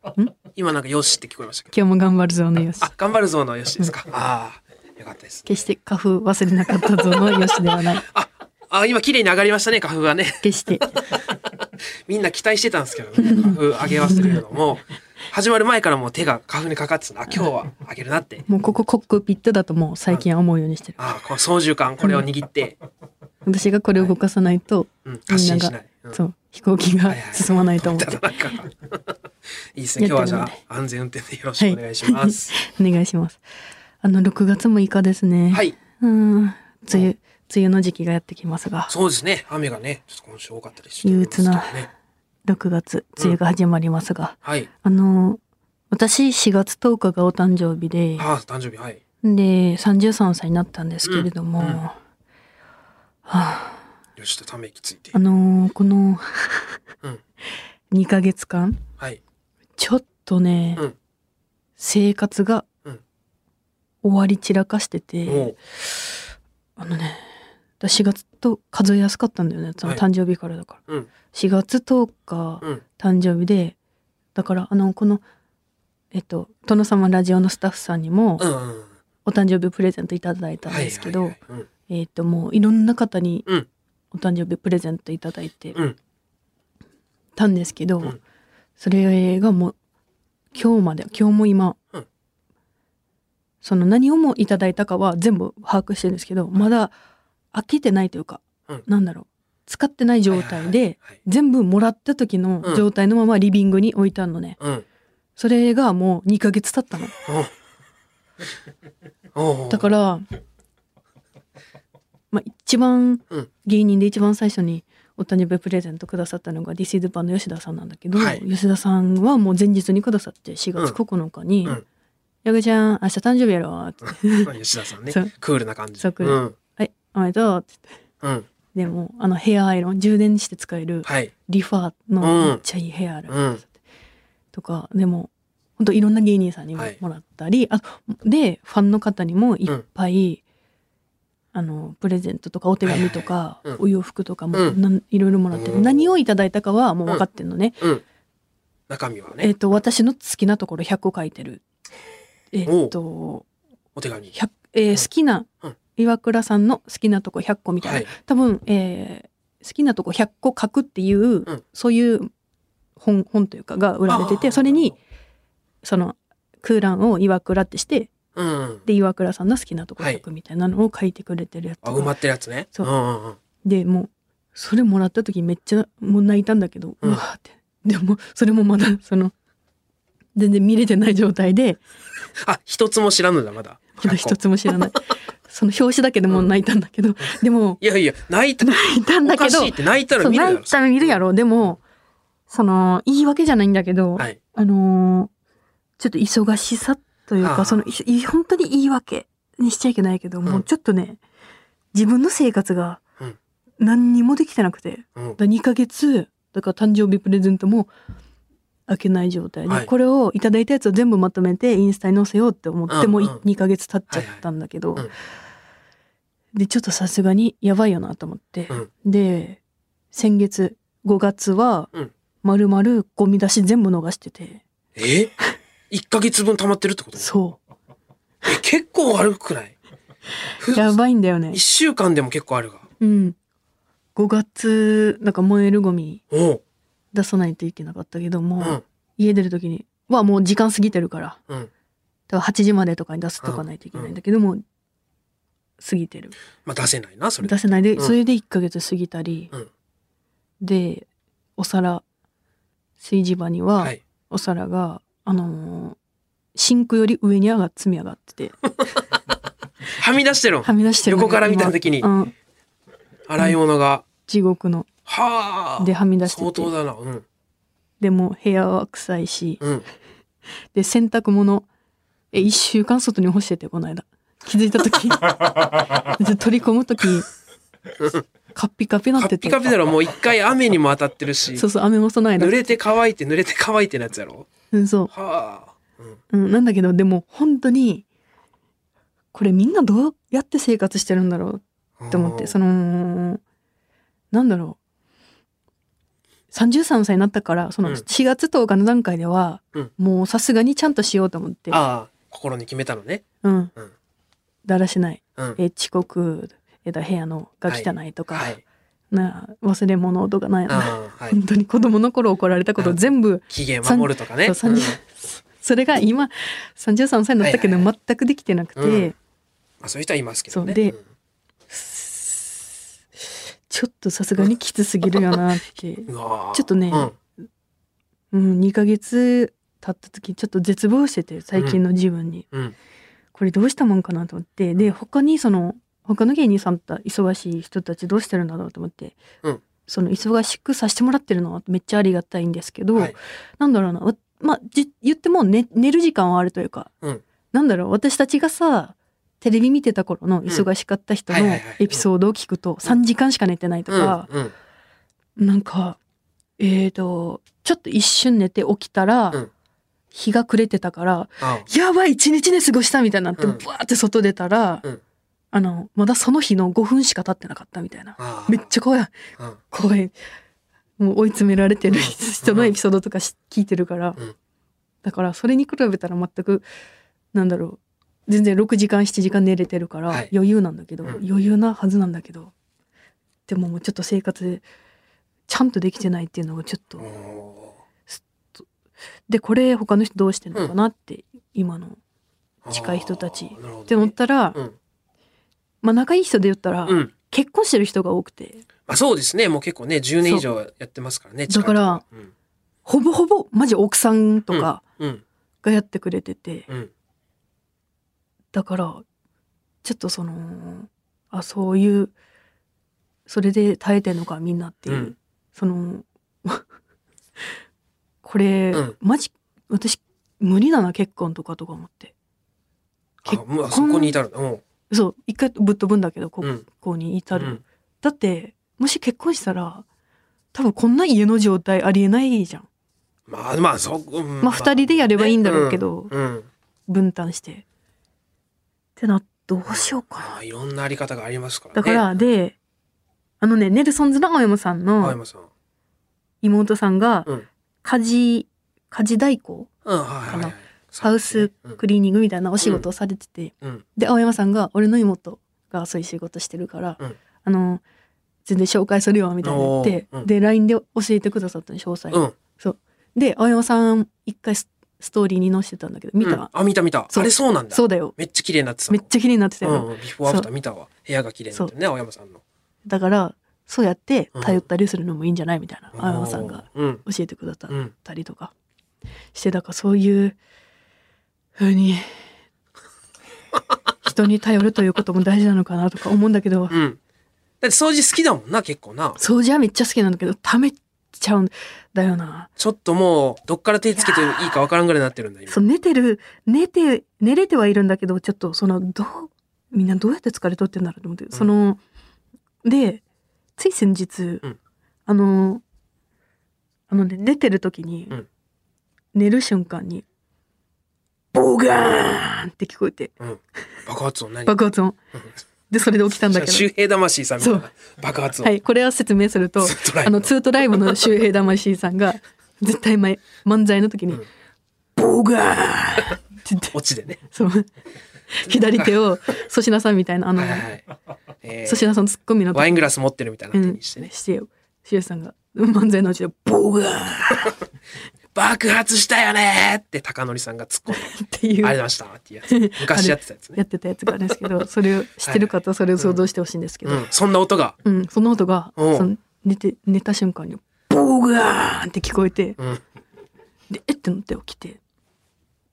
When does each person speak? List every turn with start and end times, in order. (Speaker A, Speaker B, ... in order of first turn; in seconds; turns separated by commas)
Speaker A: 0.5-1.7, Speaker B: 1.7-2.9, Speaker A: 2.8-5.5, Speaker B: 5.5-8.0, Speaker A: 6.7-11.1, Speaker B: 10.4-10.8, Speaker A: 12.1-18.5, Speaker B: 13.2-14.4, Speaker B: 18.5-21.0, Speaker A: 21.0-22.8, Speaker B: 23.4-28.5, Speaker A: 25.1-26.2, Speaker A: 27.1-29.2, Speaker A: 29.8-32.5, Speaker B: 30.0-30.6, Speaker B: 31.6-33.4, Speaker B: 34.0-38.9, Speaker A: 38.9-41.9, Speaker B: 41.0-41.9, Speaker B: 42.5-45.4, Speaker B: 45.9-48.3, Speaker A: 48.2-49.0, Speaker B: 49.2-52.0, Speaker A: 51.0-51.8, Speaker B: 53.2-53.8, Speaker A: 54.2-55.1, Speaker B: 55.1-56.8, Speaker B: 57.9-58.8, Speaker B: 59.8-60.8, Speaker B: 61.8-62.7, Speaker B: 64.0-65.6, Speaker A: 65.2-65.6, Speaker B: 66.8-67.3, Speaker B: 67.8-70.8, Speaker B: 71.3-73.8, Speaker B: 74.3-75.2, Speaker B: 76.1-78.5, Speaker A: 78.4-78.9, Speaker B: 79.2-81.4, Speaker A: 80.7-81.7, Speaker B: 81.9-83.5, Speaker B: 84.1-85.8, Speaker B: 87.4-88.2, Speaker B: 88.8-89.7, Speaker B: 90.5-91.8, Speaker B: 93.6-96.9, Speaker B: 97.5-104.6, Speaker A: 100.3-101.2, Speaker A: 104.6-104.8, Speaker B: 105.4-107.1, Speaker A: 107.2-107.5, Speaker A: 109.3-109.9, Speaker B: 109.7-110.2, Speaker B: 112.3-121.8, Speaker A: 118.1-118.4, Speaker B: 122.4-124.5, Speaker A: 124.0-126.5, Speaker B: 126.0-127.8, Speaker A: 128.2-128.5, Speaker B: 128.7-133.4, Speaker A: 131.1-131.3, Speaker A: 132.2-132.6, Speaker A: 133.3-133.6, Speaker B: 134.5-140.4, Speaker B: 141.5-147.8, Speaker A: 142.9-143.8, Speaker A: 144.5-144.8, Speaker A: 145.5-146.1, Speaker A: 148.9-149.5, Speaker B: 149.4-151.6, Speaker B: 152.5-153.5, Speaker A: 152.7-152.9, Speaker A: 154.0-154.3, Speaker B: 154.3-162.3, Speaker A: 157.8-158.1, Speaker B: 163.0-165.0, Speaker A: 164.1-164.9, Speaker B: 165.8-168.1, Speaker A: 168.4-168.8, Speaker B: 168.8-172.1, Speaker A: 171.8-173.4, Speaker B: 173.6-179.3, Speaker B: 180.3-181.8, Speaker A: 182.4-184.4, Speaker B: 184.0-187.8, Speaker A: 187.8-191.7, Speaker B: 188.6-191.8, Speaker B: 192.5-195.3, Speaker B: 196.0-201.2, Speaker A: 197.4-197.9, Speaker B: 201.9-203.0, Speaker B: 203.8-207.9, Speaker B: 208.9-215.1, Speaker A: 212.9-213.4, Speaker A: 214.1-214.4, Speaker B: 216.5-219.6, Speaker B: 220.1-221.9, Speaker B: 222.4-224.6, Speaker A: 225.0-225.3, Speaker A: 225.9-227.3, Speaker B: 227.2-227.6, Speaker A: 228.5-229.8, Speaker A: 230.6-231.0, Speaker B: 230.6-231.6, Speaker A: 231.5-232.9, Speaker B: 233.0-233.4, Speaker B: 234.2-236.2, Speaker A: 236.3-236.6, Speaker B: 237.1-241.4, Speaker B: 242.3-244.6, Speaker A: 243.4-244.1, Speaker B: 245.8-246.4, Speaker A: 246.7-248.1, Speaker B: 247.4-249.5, Speaker B: 250.6-252.0, Speaker B: 253.0-256.0, Speaker B: 256.6-258.6, Speaker A: 259.9-262.1, Speaker B: 260.6-262.3, Speaker A: 263.3-264.1, Speaker B: 264.3-264.9, Speaker A: 265.1-267.2, Speaker B: 265.8-266.7, Speaker B: 268.0-269.6, Speaker A: 269.6-269.9, Speaker B: 270.7-271.7, Speaker B: 272.3-277.3, Speaker A: 278.0-278.2, Speaker B: 278.5-279.7, Speaker A: 279.2-281.6, Speaker B: 281.6-282.8, Speaker A: 282.4-284.5, Speaker B: 284.7-285.1, Speaker A: 285.1-286.2, Speaker B: 286.3-288.1, Speaker B: 289.3-293.4, Speaker A: 292.0-292.5, Speaker B: 294.3-294.8, Speaker B: 296.5-301.8, Speaker A: 301.7-303.2, Speaker B: 303.4-303.7, Speaker B: 304.6-308.5, Speaker A: 307.7-308.6, Speaker B: 309.1-319.1, Speaker A: 310.7-311.4, Speaker A: 312.8-315.0, Speaker A: 317.4-317.9, Speaker A: 318.8-319.1, Speaker A: 319.8-321.0, Speaker B: 320.5-320.9, Speaker B: 321.7-322.6, Speaker B: 323.7-327.2, Speaker A: 326.1-327.1, Speaker B: 328.3-332.5, Speaker B: 333.3-339.2, Speaker B: 339.9-346.9, Speaker B: 347.5-354.3, Speaker A: 351.3-352.0, Speaker A: 353.9-354.5, Speaker B: 355.4-356.0, Speaker B: 356.6-359.4, Speaker B: 360.1-364.9, Speaker A: 361.4-361.7, Speaker B: 365.5-369.2, Speaker A: 368.2-368.7, Speaker B: 369.7-370.1, Speaker B: 371.0-374.2, Speaker A: 371.9-372.7, Speaker B: 375.0-376.6, Speaker B: 377.3-382.5, Speaker B: 383.5-384.6, Speaker B: 385.5-387.1, Speaker A: 387.0-387.8, Speaker B: 388.1-388.6, Speaker B: 389.3-392.0, Speaker A: 392.6-394.8, Speaker B: 392.7-394.6, Speaker B: 395.8-398.6, Speaker A: 398.9-402.3, Speaker B: 401.5-402.0, Speaker B: 402.9-404.8, Speaker A: 404.5-405.2, Speaker B: 405.6-406.7, Speaker B: 408.5-409.0, Speaker B: 409.8-412.1, Speaker B: 413.3-416.6, Speaker A: 414.9-415.1, Speaker B: 418.2-422.1, Speaker A: 423.2-424.6, Speaker B: 423.2-424.2, Speaker B: 424.9-429.9, Speaker A: 427.4-427.6, Speaker B: 430.5-432.7, Speaker A: 433.3-436.5, Speaker B: 434.4-436.1, Speaker B: 436.9-437.6, Speaker B: 439.0-440.4, Speaker A: 439.7-442.1, Speaker B: 441.8-442.6, Speaker B: 443.4-445.2, Speaker A: 445.0-445.5, Speaker B: 446.4-447.3, Speaker B: 447.8-449.7, Speaker A: 449.9-451.8, Speaker B: 450.3-457.8, Speaker B: 458.4-466.5, Speaker A: 459.4-460.3, Speaker A: 462.1-462.4, Speaker A: 466.2-469.1, Speaker B: 467.1-468.1, Speaker B: 468.9-470.5, Speaker A: 469.6-472.4, Speaker B: 472.9-478.5, Speaker A: 474.4-474.6, Speaker A: 475.9-477.0, Speaker B: 479.3-480.4, Speaker B: 481.6-482.1, Speaker B: 484.0-486.8, Speaker A: 486.7-487.0, Speaker A: 487.6-489.2, Speaker B: 489.2-492.5, Speaker A: 492.6-495.6, Speaker B: 494.0-494.5, Speaker B: 495.5-501.8, Speaker B: 502.6-503.0, Speaker B: 503.6-504.4, Speaker B: 505.1-505.6, Speaker B: 506.9-508.2, Speaker B: 509.1-510.1, Speaker B: 511.3-513.1, Speaker A: 513.2-514.5, Speaker B: 514.5-515.0, Speaker B: 515.7-516.7, Speaker A: 516.1-518.5, Speaker B: 517.4-517.7, Speaker B: 518.4-524.2, Speaker A: 519.6-521.0, Speaker B: 525.0-526.8, Speaker A: 526.7-527.2, Speaker B: 527.3-527.7, Speaker B: 528.3-530.7, Speaker A: 530.4-530.8, Speaker A: 531.4-531.9, Speaker B: 531.6-532.9, Speaker A: 532.5-534.1, Speaker B: 533.5-537.5, Speaker A: 538.3-544.5, Speaker B: 540.9-541.8, Speaker B: 542.5-547.0, Speaker A: 545.2-546.2, Speaker A: 546.9-547.8, Speaker B: 547.8-552.6, Speaker A: 548.8-549.1, Speaker B: 553.7-554.8